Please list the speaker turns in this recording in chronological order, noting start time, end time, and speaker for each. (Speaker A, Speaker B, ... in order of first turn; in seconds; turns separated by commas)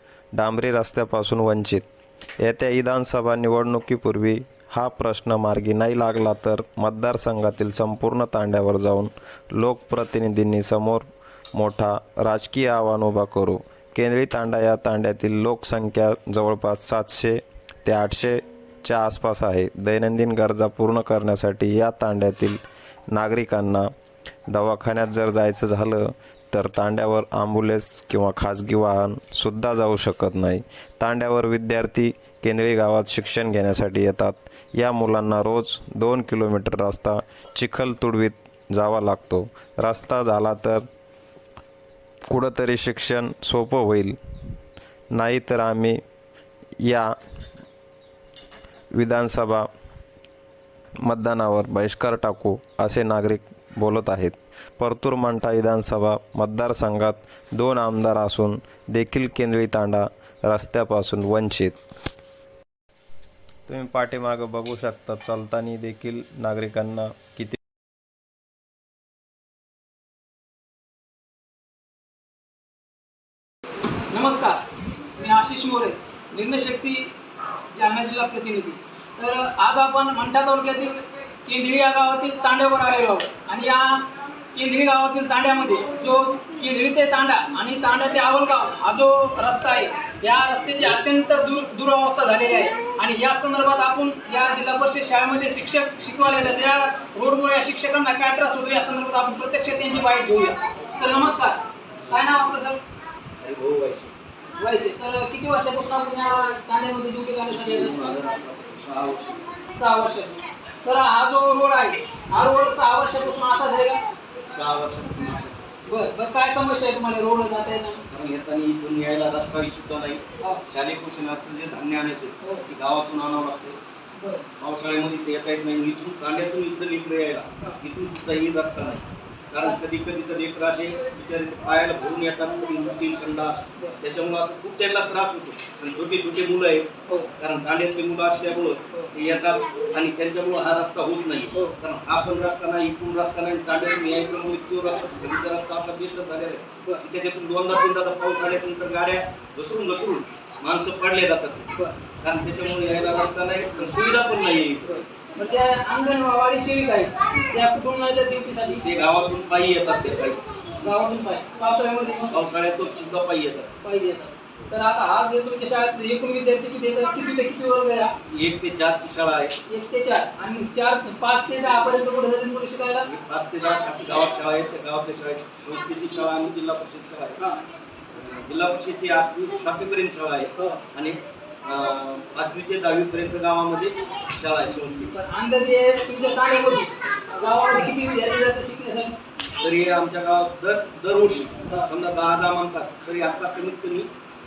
Speaker A: 0.4-1.8, Speaker A: 2.4-22.6, Speaker A: 23.1-23.9, Speaker A: 24.5-40.8, Speaker A: 42.3-44.2, Speaker A: 45.1-46.0, Speaker A: 46.9-47.1, Speaker A: 49.0-49.7, Speaker A: 51.1-61.8, Speaker A: 63.7-67.6, Speaker B: 74.1-74.6, Speaker B: 75.2-77.1, Speaker B: 77.7-102.8, Speaker C: 103.4-104.1, Speaker B: 104.6-108.0, Speaker C: 107.5-109.5, Speaker B: 109.7-114.0, Speaker C: 114.5-115.9, Speaker B: 115.8-118.0, Speaker C: 118.1-123.8, Speaker B: 124.1-124.5, Speaker C: 124.6-151.7, Speaker C: 152.2-155.0, Speaker B: 154.9-158.9, Speaker C: 158.8-160.4, Speaker B: 160.8-162.4, Speaker C: 162.3-163.7, Speaker B: 163.8-168.1, Speaker C: 168.3-169.5, Speaker B: 169.7-173.1, Speaker C: 173.0-177.4, Speaker B: 177.4-177.6, Speaker C: 178.1-185.1, Speaker B: 185.1-189.2, Speaker C: 189.6-194.1